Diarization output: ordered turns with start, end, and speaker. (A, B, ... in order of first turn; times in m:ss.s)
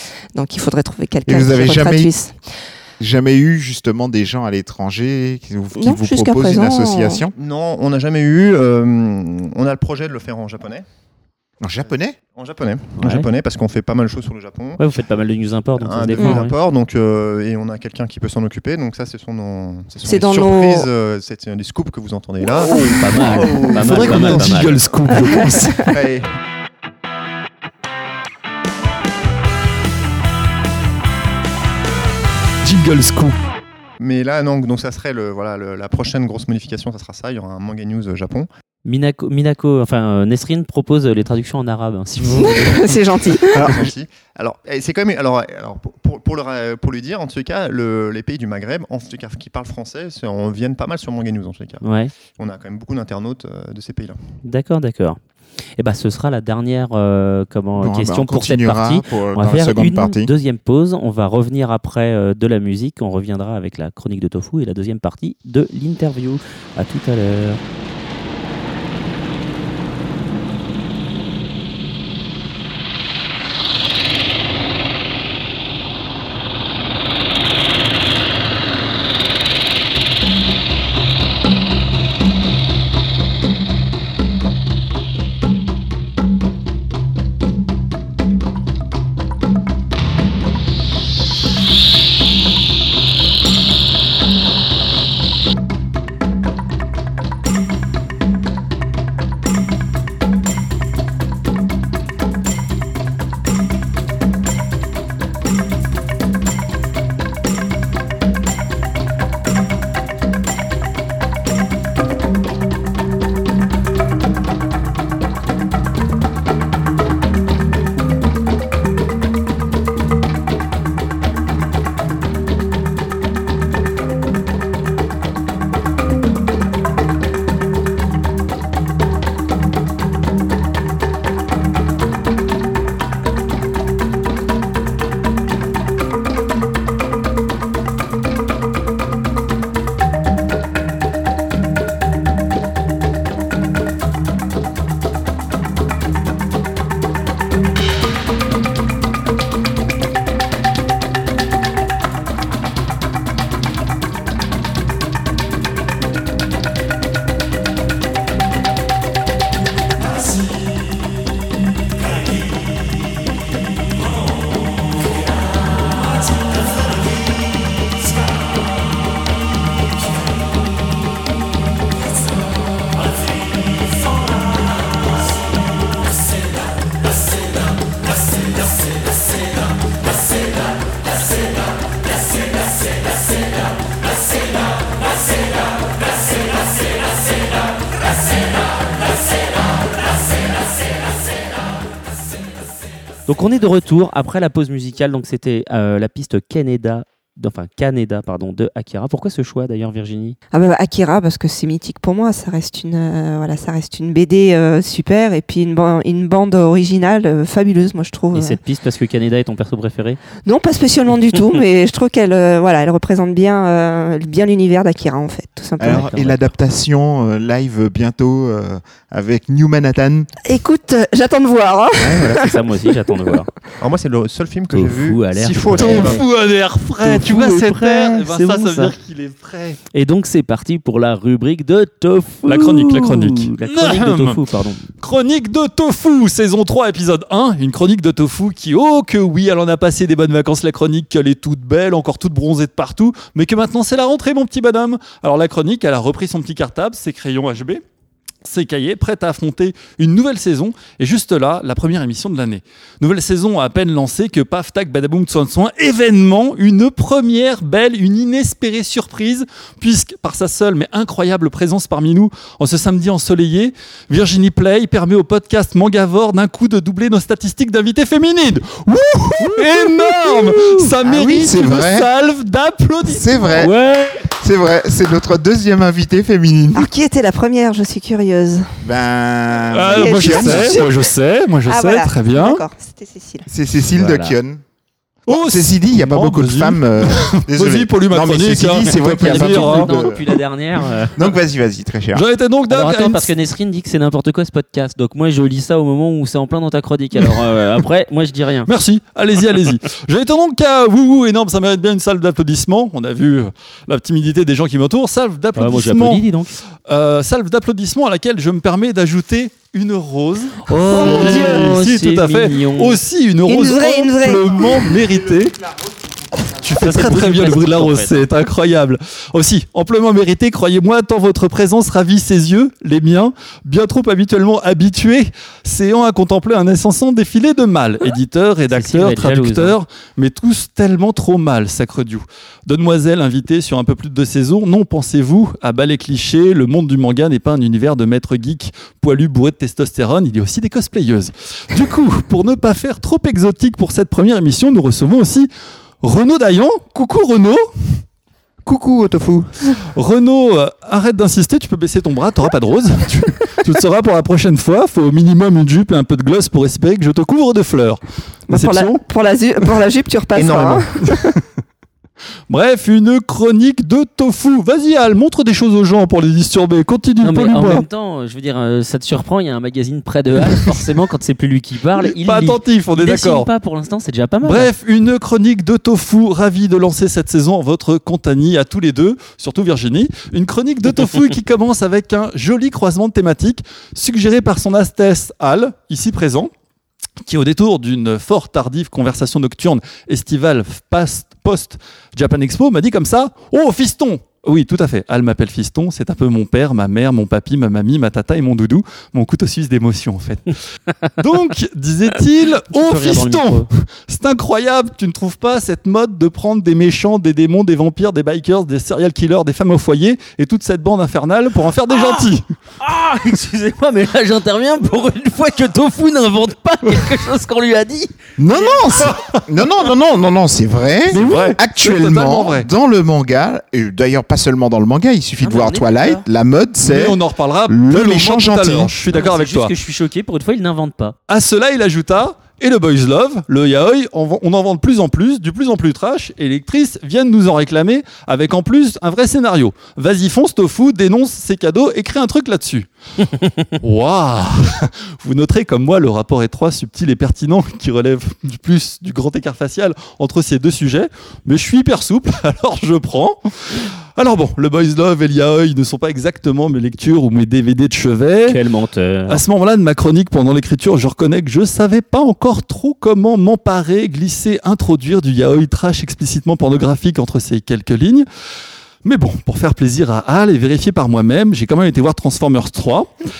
0:00.4-0:02.3 A
0:01.3-0:02.1 B
0:03.0-0:07.3 B
0:05.8-0:07.2 A
0:07.3-0:10.8 C
0:11.6-0:12.2 B
0:11.8-0:14.8 C
0:13.0-0:13.3 D
0:14.8-0:16.6 D
0:15.8-0:24.7 C
0:20.0-0:20.9 A
0:22.7-0:24.8 D
0:22.7-0:25.9 E
0:25.2-0:25.6 A
0:25.9-0:26.2 C
0:32.6-0:33.4 E
0:34.0-0:38.5 C
0:38.8-0:43.0 D
0:42.3-0:43.7 A
0:43.4-0:51.8 C
0:43.6-0:43.8 B
0:51.8-0:52.1 D
0:52.4-0:54.2 C
0:54.4-0:55.2 D
0:55.8-1:07.6 D
0:57.8-1:00.3 B
3:13.3-3:20.4 D
3:20.5-3:28.6 A
3:28.3-3:30.2 D
3:30.4-3:36.4 A
3:35.8-3:40.3 B
3:35.9-3:36.4 D
3:40.4-3:42.5 A
3:42.0-3:43.5 D
3:43.8-3:46.2 C
3:44.7-3:46.2 D
3:45.8-3:49.8 E
3:47.0-3:48.9 D
3:49.9-3:54.9 D
3:52.4-3:54.4 E
3:55.0-4:07.8 E
4:08.4-4:34.2 E
4:29.4-4:30.8 D
4:31.0-4:32.1 B
4:33.1-4:36.9 B
4:33.6-4:34.0 D
4:36.7-4:38.7 A
4:38.8-4:40.9 B
4:39.7-4:42.6 E
4:39.9-4:41.1 A
4:41.7-4:43.5 A
4:43.5-4:44.6 B
4:44.0-4:44.4 D
4:45.3-4:50.2 B
4:45.3-4:49.9 E
4:48.9-4:51.2 D
4:51.1-4:52.2 B
4:52.1-4:53.3 E
4:52.7-4:58.7 D
4:58.7-5:06.3 E
5:05.6-5:06.5 D
5:06.9-5:15.7 E
5:10.7-5:13.0 D
5:10.9-5:11.7 A
5:13.4-5:15.0 A
5:16.4-5:45.5 E
5:16.6-5:18.3 D
5:28.7-5:29.8 D
5:46.0-5:47.7 E
5:48.6-5:49.5 C
5:49.9-5:59.0 E
5:58.5-6:00.9 A
6:00.4-6:00.9 C
6:01.1-6:01.4 E
6:02.5-6:07.8 E
6:07.2-6:14.7 D
6:12.0-6:13.5 E
6:14.4-6:26.5 E
6:27.2-6:40.6 E
6:41.2-6:52.4 E
6:42.7-6:43.7 D
6:51.9-6:52.3 D
6:52.8-6:58.1 D
6:58.4-7:08.9 B
7:01.1-7:02.7 E
7:01.2-7:01.5 D
7:05.4-7:06.3 D
7:06.8-7:09.7 E
7:09.1-7:11.2 D
7:11.3-7:38.6 E
7:38.5-7:39.4 D
7:39.3-7:48.3 E
7:49.0-7:53.1 E